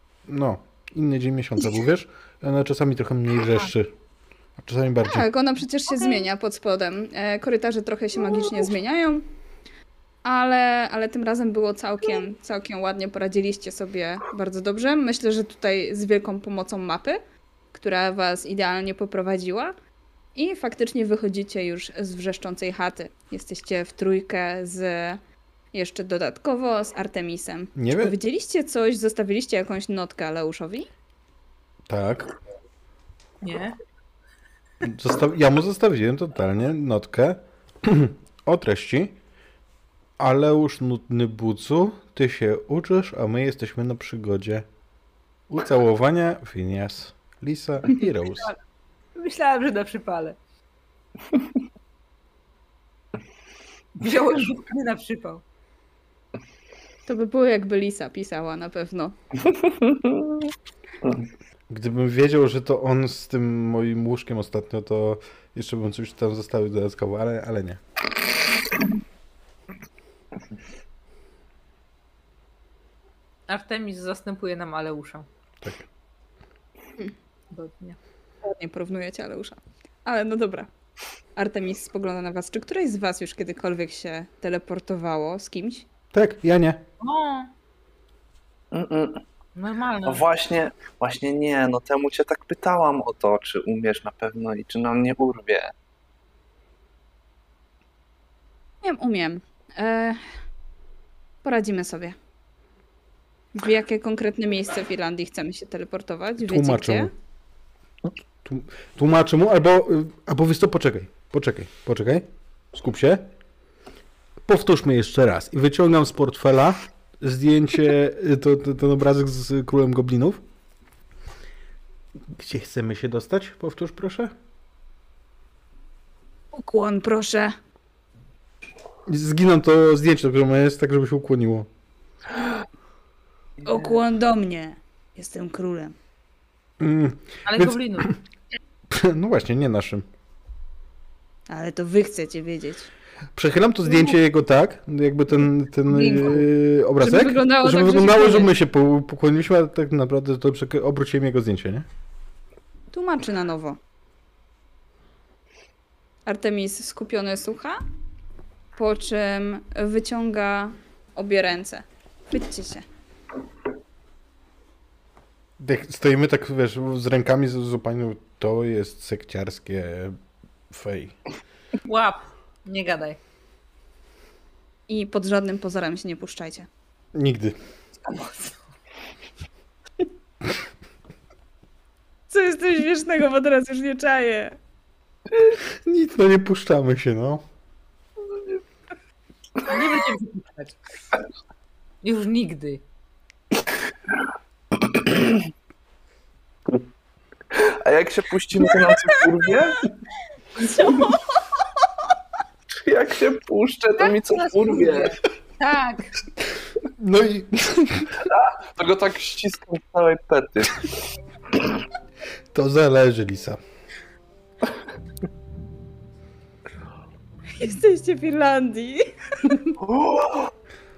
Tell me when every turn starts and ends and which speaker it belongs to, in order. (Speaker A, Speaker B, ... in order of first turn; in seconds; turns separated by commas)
Speaker A: 0.3-3.9, Speaker A: 4.6-5.3, Speaker B: 5.0-9.2, Speaker B: 10.2-17.2, Speaker B: 17.7-19.7, Speaker B: 20.3-25.2, Speaker B: 25.7-30.9, Speaker A: 27.8-28.1, Speaker A: 31.9-32.3, Speaker C: 33.4-33.8, Speaker A: 34.8-39.2, Speaker A: 40.2-44.6, Speaker A: 45.5-48.5, Speaker C: 49.1-50.4, Speaker C: 54.0-55.4, Speaker B: 57.1-59.1, Speaker D: 59.5-60.4, Speaker A: 61.7-67.8, Speaker C: 73.5-75.2, Speaker C: 77.5-78.0, Speaker B: 78.4-80.7, Speaker B: 81.3-85.8, Speaker A: 86.1-86.8, Speaker C: 87.0-87.5, Speaker D: 88.7-89.2, Speaker C: 89.5-90.2, Speaker D: 90.0-95.7, Speaker B: 98.8-100.2, Speaker B: 101.4-102.2, Speaker B: 103.5-107.1, Speaker A: 106.4-107.1, Speaker A: 108.4-113.3, Speaker A: 114.4-120.4, Speaker A: 122.3-124.3, Speaker B: 126.5-127.5, Speaker A: 129.1-131.7, Speaker D: 133.6-134.0, Speaker B: 133.7-135.9, Speaker A: 136.8-138.2, Speaker C: 137.4-138.1, Speaker A: 138.9-140.1, Speaker B: 141.5-142.9, Speaker A: 143.3-151.8, Speaker C: 145.9-146.4, Speaker B: 147.0-148.5, Speaker B: 152.9-153.8, Speaker B: 156.2-157.8, Speaker B: 158.7-162.8, Speaker A: 165.6-170.2, Speaker A: 170.7-171.1, Speaker C: 171.8-173.2, Speaker B: 174.9-176.7, Speaker A: 177.1-177.6, Speaker C: 178.0-178.6, Speaker B: 182.3-184.6, Speaker A: 185.6-187.4, Speaker C: 189.6-190.8, Speaker C: 192.0-192.8, Speaker D: 194.9-195.4, Speaker D: 197.5-199.9, Speaker D: 200.6-201.1, Speaker D: 202.7-205.2, Speaker C: 204.0-206.2, Speaker A: 207.0-208.1, Speaker D: 208.2-210.9, Speaker A: 212.5-213.6, Speaker B: 217.5-219.6, Speaker D: 219.8-220.5